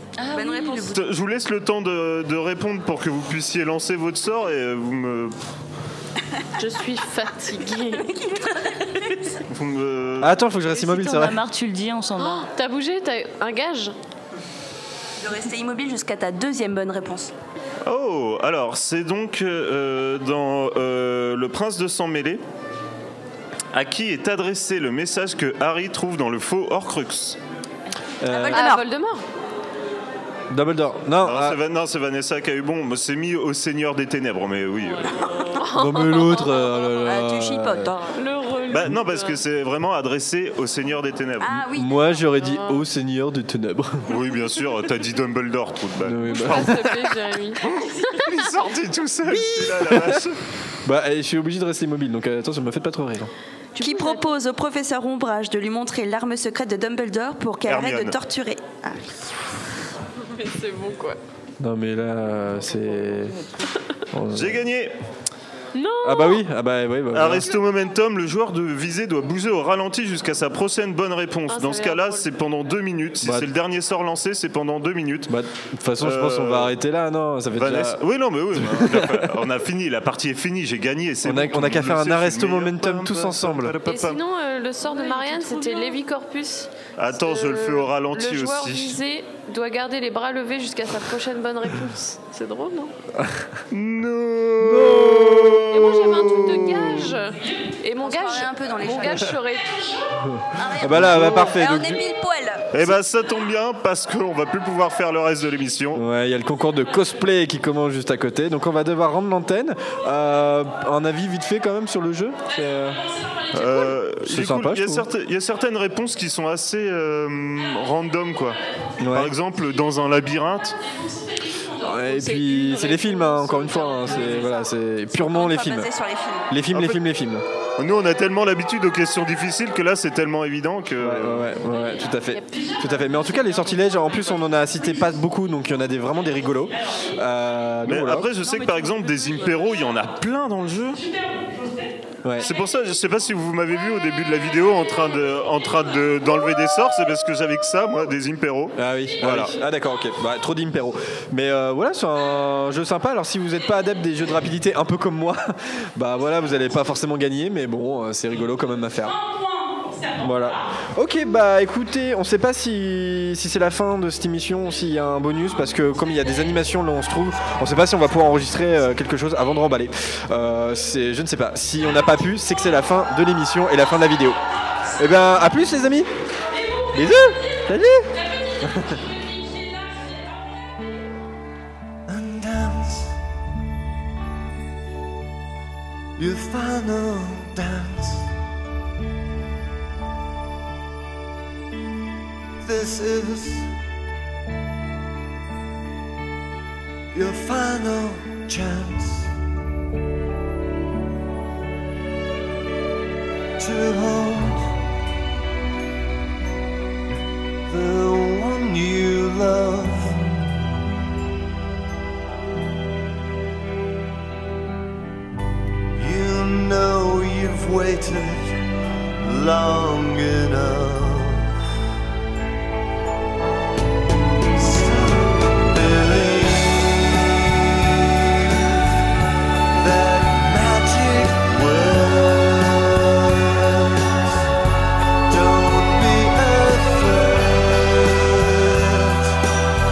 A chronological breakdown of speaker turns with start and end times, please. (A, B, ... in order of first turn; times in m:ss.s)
0:00.2-0:01.0 A
0:00.3-0:01.0 B
0:00.9-0:05.3 C
0:06.6-0:08.1 D
0:07.9-0:09.2 B
0:09.5-0:10.3 C
0:10.2-0:11.4 E
0:10.6-0:12.5 A
0:12.2-0:13.9 D
0:15.2-0:17.3 B
0:17.8-0:22.4 C
0:23.7-0:27.4 C
0:28.2-0:28.6 E
0:28.2-0:28.8 B
0:28.5-0:29.2 D
0:30.5-0:31.6 E
0:31.2-0:35.1 C
0:34.8-0:35.6 A
0:35.2-0:35.5 B
0:35.6-0:36.9 D
0:35.7-0:37.9 E
0:37.0-0:38.2 B
0:38.1-0:39.4 D
0:38.7-0:41.6 C
0:41.4-0:42.2 B
0:41.7-0:44.2 E
0:42.3-0:42.8 D
0:44.1-0:46.6 C
0:46.0-0:47.1 E
0:46.2-0:48.4 D
0:47.6-0:50.4 C
0:49.2-0:50.2 E
0:50.8-0:53.3 E
0:53.7-0:54.3 D
0:53.8-0:59.1 B
0:57.6-0:58.1 C
1:00.2-1:01.2 D
1:01.6-1:03.4 E
1:03.0-1:03.3 A
1:04.1-1:04.6 E
1:04.3-1:04.9 C
1:05.7-1:06.4 D
1:06.0-1:07.6 E
1:07.1-1:15.3 C
1:11.5-1:12.3 D
1:13.2-1:13.5 E
1:15.3-1:18.0 E
1:16.0-1:16.7 C
1:17.6-1:24.2 C
1:18.5-1:19.4 E
1:21.2-1:23.8 E
1:23.8-1:32.9 D
1:24.8-1:26.0 A
1:27.0-1:29.0 C
1:33.2-1:33.5 E
1:33.7-1:37.1 C
1:34.6-1:36.3 E
1:35.7-1:40.0 D
1:38.0-1:39.3 B
1:40.3-1:42.0 E
1:40.5-1:42.7 B
1:42.7-1:46.0 C
1:45.9-1:53.0 E
1:53.5-2:00.8 C
1:54.2-1:55.1 E
1:59.0-1:59.3 E
2:01.8-2:05.9 E
2:02.0-2:04.6 D
2:04.0-2:04.7 A
2:05.1-2:06.6 B
2:06.5-2:07.4 E
2:06.7-2:07.0 C
2:07.8-2:11.5 C
2:11.0-2:18.3 E
2:11.6-2:12.1 A
2:12.3-2:13.9 D
2:13.2-2:14.3 A
2:17.8-2:21.0 C
2:18.3-2:20.0 A
2:22.2-2:22.5 E
2:22.4-2:29.6 C
2:28.8-2:39.2 E
2:40.2-2:54.4 E
2:55.0-2:56.1 E
2:56.9-2:59.0 E
2:59.3-2:59.7 A
3:02.1-3:03.1 F
3:06.2-3:08.3 F
3:12.6-3:13.7 F
3:17.1-3:19.3 F
3:23.6-3:24.8 F
3:27.7-3:30.3 F
3:35.9-3:41.5 F
3:44.5-3:48.8 F
3:49.7-3:54.5 F
3:55.3-3:59.3 F